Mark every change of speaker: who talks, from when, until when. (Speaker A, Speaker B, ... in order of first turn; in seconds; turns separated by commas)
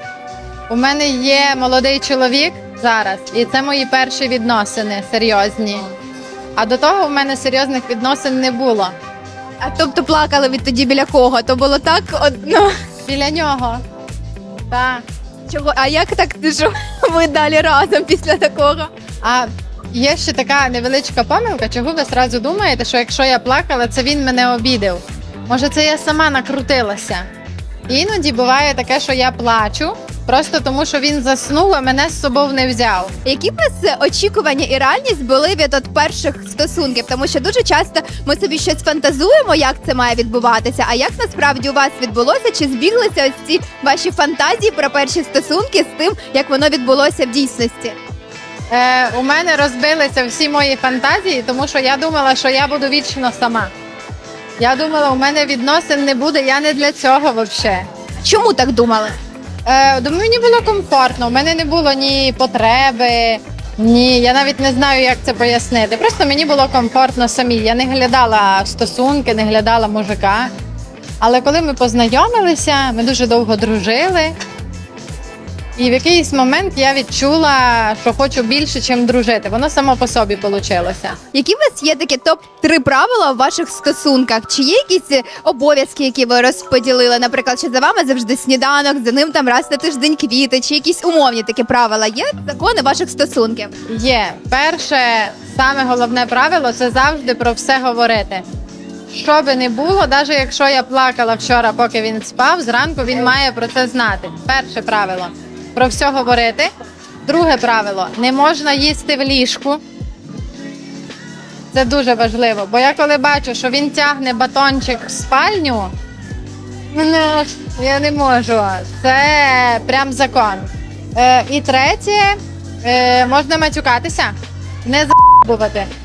Speaker A: 0.7-5.9, Speaker A: 6.6-8.9, Speaker B: 9.6-12.8, Speaker A: 13.1-13.8, Speaker A: 14.7-15.0, Speaker B: 15.5-18.9, Speaker A: 19.2-27.3, Speaker A: 27.9-33.1, Speaker B: 33.2-48.0, Speaker A: 48.7-53.7, Speaker A: 54.6-57.9, Speaker B: 58.2-59.2, Speaker A: 59.6-70.5, Speaker A: 71.2-74.3, Speaker A: 75.8-81.2, Speaker B: 81.3-93.7, Speaker A: 93.9-98.5, Speaker A: 99.1-106.7, Speaker A: 107.3-109.8, Speaker A: 111.7-115.9, Speaker A: 116.9-125.9